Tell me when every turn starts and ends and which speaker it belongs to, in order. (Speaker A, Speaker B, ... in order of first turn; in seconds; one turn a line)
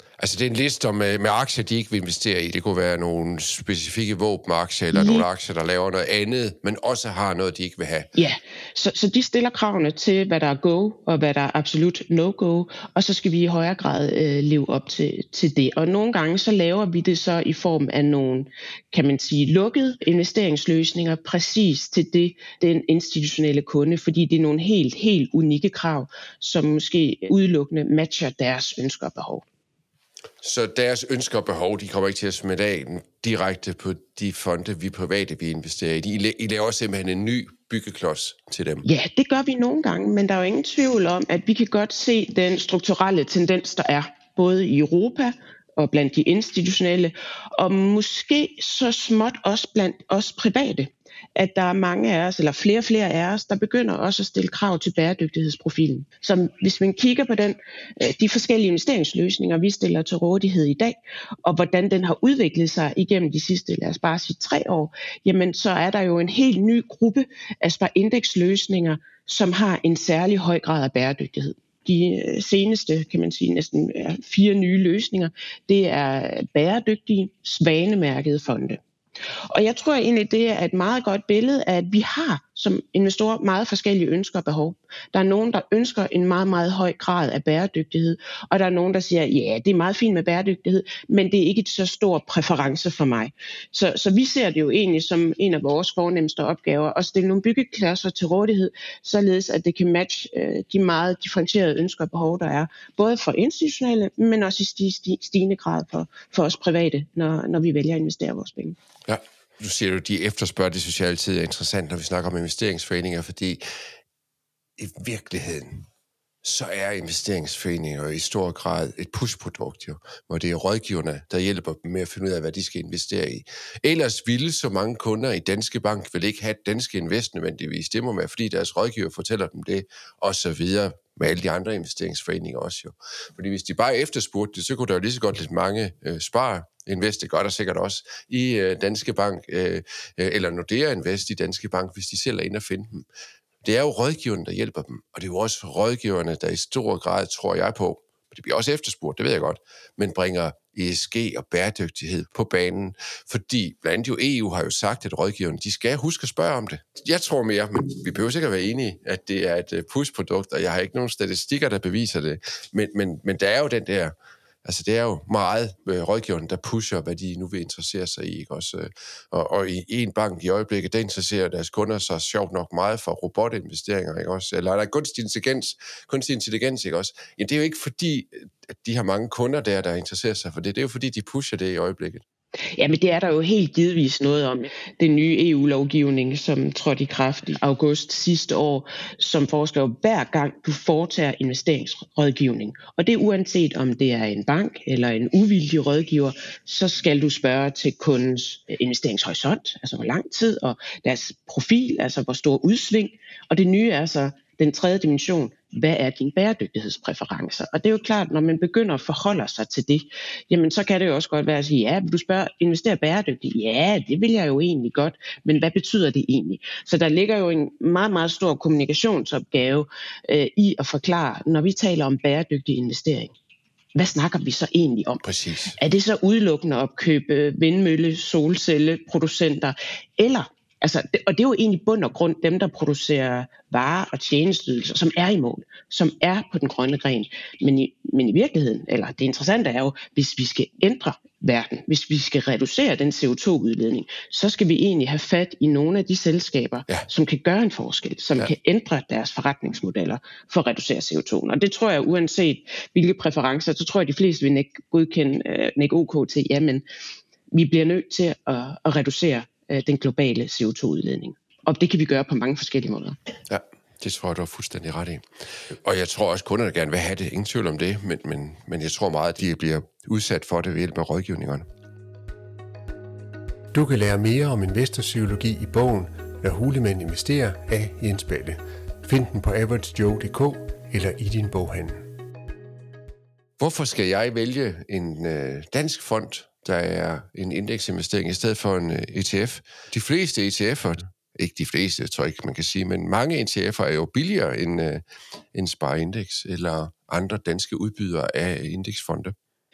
Speaker A: 0.2-8.1
Speaker B: 4.9-5.2
Speaker B: 8.1-29.4
Speaker A: 30.4-38.9
Speaker B: 38.8-78.8
Speaker B: 79.5-108.8
Speaker A: 109.0-113.6
Speaker A: 114.8-115.9
Speaker A: 116.4-143.0
Speaker A: 143.6-182.2
Speaker B: 182.7-223.3
Speaker B: 223.9-225.2
Speaker A: 225.2-225.7
Speaker B: 225.7-256.8
Speaker B: 257.5-263.1
Speaker A: 263.5-271.6
Speaker C: 273.7-282.1
Speaker A: 283.6-295.0
Speaker A: 295.5-299.3